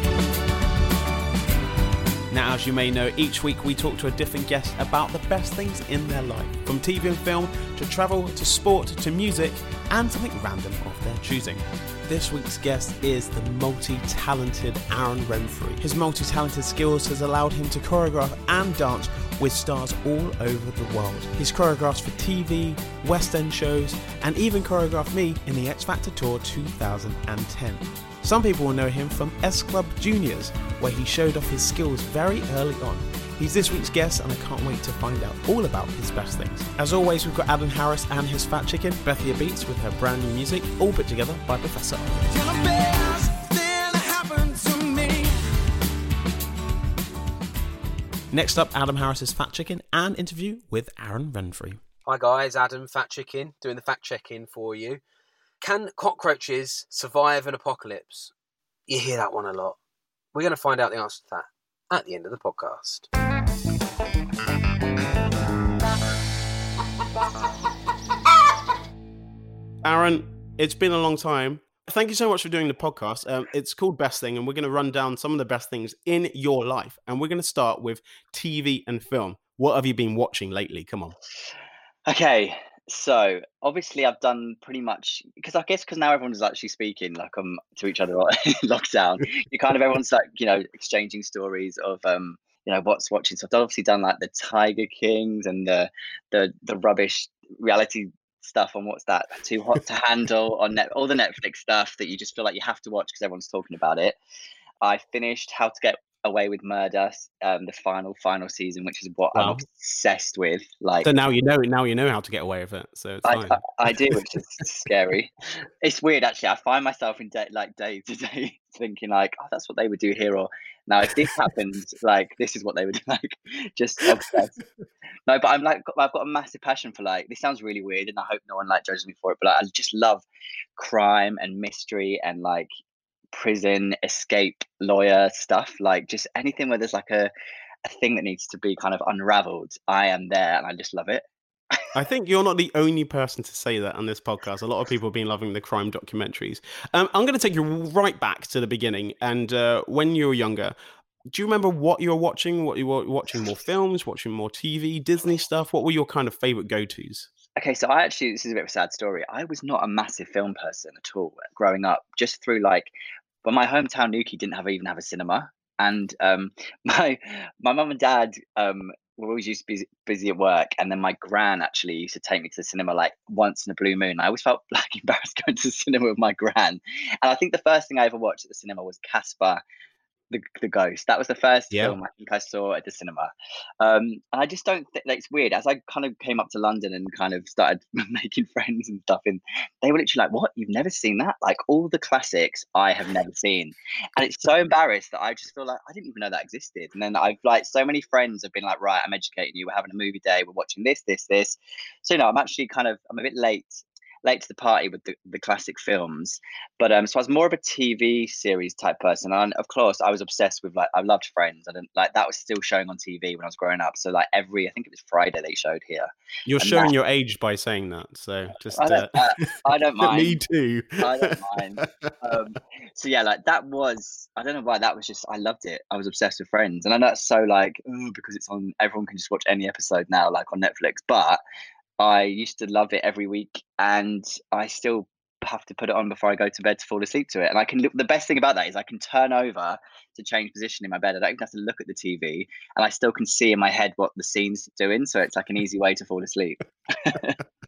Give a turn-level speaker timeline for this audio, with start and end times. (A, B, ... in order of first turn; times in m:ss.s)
0:02.3-0:42.3 A
0:42.4-0:44.9 B
0:48.3-0:51.8 A
0:52.0-0:55.0 B
0:55.6-0:58.3 B
0:58.9-0:59.8 B
1:00.3-1:03.1 B
1:09.8-1:21.2 A
1:22.1-1:44.2 C
1:44.8-1:51.1 C
1:49.3-1:49.6 A
1:51.0-1:54.2 A
1:53.2-2:04.6 C
2:05.3-2:10.2 C
2:10.8-2:12.7 C
2:13.3-2:17.3 C
2:17.8-2:21.2 C
2:21.9-2:30.7 A
2:31.3-2:37.3 A
2:37.6-2:42.9 C
2:43.4-2:59.6 C
3:00.3-3:36.9 C
3:36.4-3:39.5 A
3:38.7-3:40.4 C
3:40.0-3:42.1 A
3:41.0-3:51.4 C
3:52.0-4:07.4 C